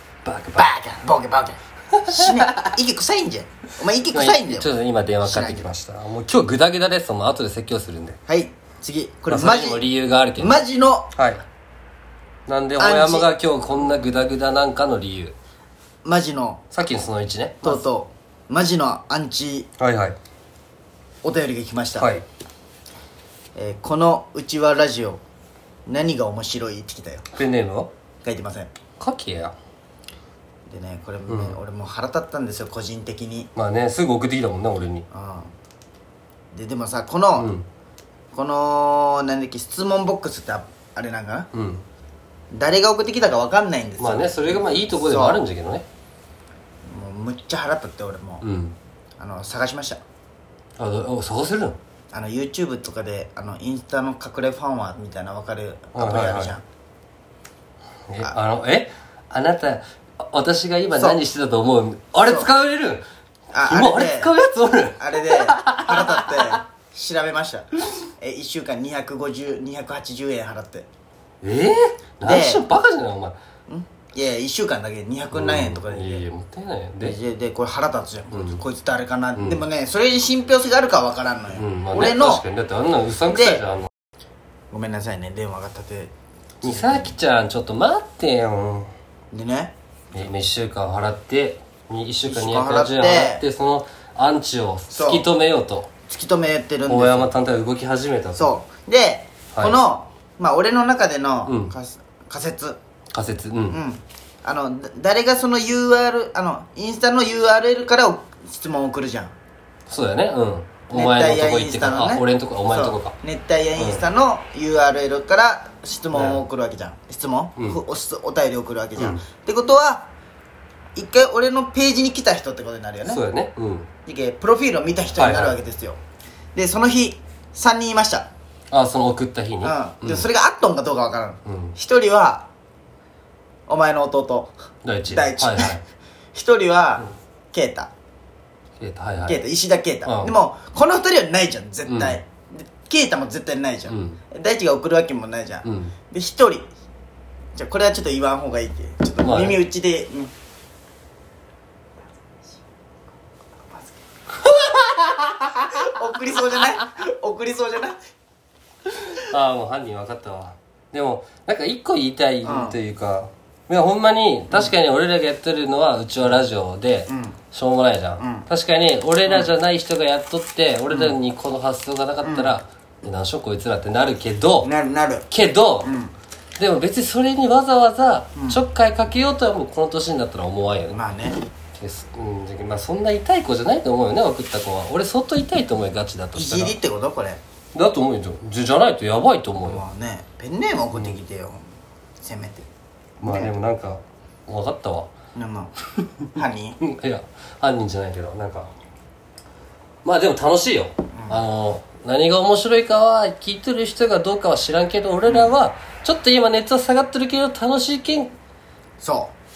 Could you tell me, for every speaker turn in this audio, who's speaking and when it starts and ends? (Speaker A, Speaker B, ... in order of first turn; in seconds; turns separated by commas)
Speaker A: 0.2-0.7, Speaker B: 0.5-4.7, Speaker A: 1.9-2.7, Speaker A: 4.1-8.2, Speaker B: 5.2-5.7, Speaker B: 8.3-9.8, Speaker A: 9.3-10.6, Speaker B: 10.4-11.1, Speaker A: 11.1-11.4, Speaker A: 12.5-15.3, Speaker B: 12.8-13.3, Speaker B: 16.0-16.6, Speaker A: 16.7-17.8, Speaker B: 17.6-19.7, Speaker A: 19.8-20.1, Speaker B: 21.2-22.1, Speaker A: 22.0-22.2, Speaker B: 23.5-25.2, Speaker B: 25.9-27.2, Speaker A: 27.3-27.9, Speaker B: 28.2-28.7, Speaker A: 29.0-29.5, Speaker B: 30.7-33.5, Speaker A: 31.3-31.6, Speaker A: 33.5-35.0, Speaker B: 35.1-35.5, Speaker B: 36.5-37.5, Speaker A: 37.4-37.6, Speaker B: 38.3-41.5, Speaker A: 41.5-41.8, Speaker B: 42.5-45.4, Speaker A: 44.0-45.9, Speaker B: 46.9-48.4, Speaker A: 48.4-48.8, Speaker B: 49.2-50.0, Speaker A: 50.8-51.8, Speaker B: 52.1-56.6, Speaker A: 55.9-56.6, Speaker A: 58.1-63.0, Speaker B: 60.9-61.2, Speaker B: 62.2-62.5, Speaker B: 63.5-64.3, Speaker A: 63.6-66.6, Speaker B: 64.9-70.9, Speaker A: 71.4-73.4, Speaker B: 72.2-72.7, Speaker B: 73.7-76.2, Speaker A: 75.3-77.2, Speaker B: 77.0-82.4, Speaker A: 78.3-78.6, Speaker A: 79.3-79.6, Speaker A: 81.5-83.9, Speaker B: 83.3-83.6, Speaker B: 84.7-87.1, Speaker A: 86.6-88.9, Speaker B: 89.3-89.7, Speaker A: 90.1-95.9, Speaker B: 92.2-93.4, Speaker B: 94.9-95.3, Speaker B: 96.1-97.3, Speaker A: 96.9-98.5, Speaker B: 98.3-102.8, Speaker A: 99.5-99.8, Speaker A: 101.5-101.7, Speaker A: 103.1-103.8, Speaker B: 103.7-109.3, Speaker A: 109.9-113.2, Speaker B: 110.9-120.1, Speaker A: 113.8-114.0, Speaker A: 116.1-116.4, Speaker B: 120.9-123.2, Speaker A: 123.0-123.9, Speaker B: 124.0-126.0, Speaker A: 125.2-125.6, Speaker B: 126.5-128.3, Speaker A: 128.7-130.3, Speaker B: 129.6-132.5, Speaker A: 131.4-131.7, Speaker B: 133.7-134.5, Speaker A: 134.8-135.8, Speaker B: 135.1-135.8, Speaker B: 136.3-137.9, Speaker A: 138.8-139.4, Speaker B: 139.2-146.7, Speaker A: 140.1-140.3, Speaker A: 141.9-142.2, Speaker A: 143.9-144.2, Speaker A: 145.6-145.9, Speaker B: 147.6-150.3, Speaker A: 149.2-149.6, Speaker B: 155.4-158.0, Speaker A: 159.2-174.7, Speaker B: 162.4-162.8, Speaker B: 164.5-164.7, Speaker B: 167.1-167.4, Speaker B: 168.2-168.5, Speaker B: 169.2-169.5, Speaker B: 170.9-171.2, Speaker B: 172.2-172.5, Speaker B: 174.6-175.3, Speaker A: 175.3-175.9, Speaker B: 175.8-176.1, Speaker A: 176.6-181.0, Speaker B: 178.3-178.6, Speaker B: 180.9-181.4, Speaker A: 181.8-186.8, Speaker B: 186.3-187.4, Speaker A: 187.7-189.8, Speaker B: 189.6-191.6, Speaker B: 192.2-192.7, Speaker B: 193.2-193.5, Speaker A: 193.2-195.1, Speaker B: 195.3-195.7, Speaker B: 196.3-196.8, Speaker A: 196.8-198.7, Speaker A: 200.0-208.3, Speaker B: 201.1-201.4, Speaker B: 205.3-205.5, Speaker B: 209.0-209.3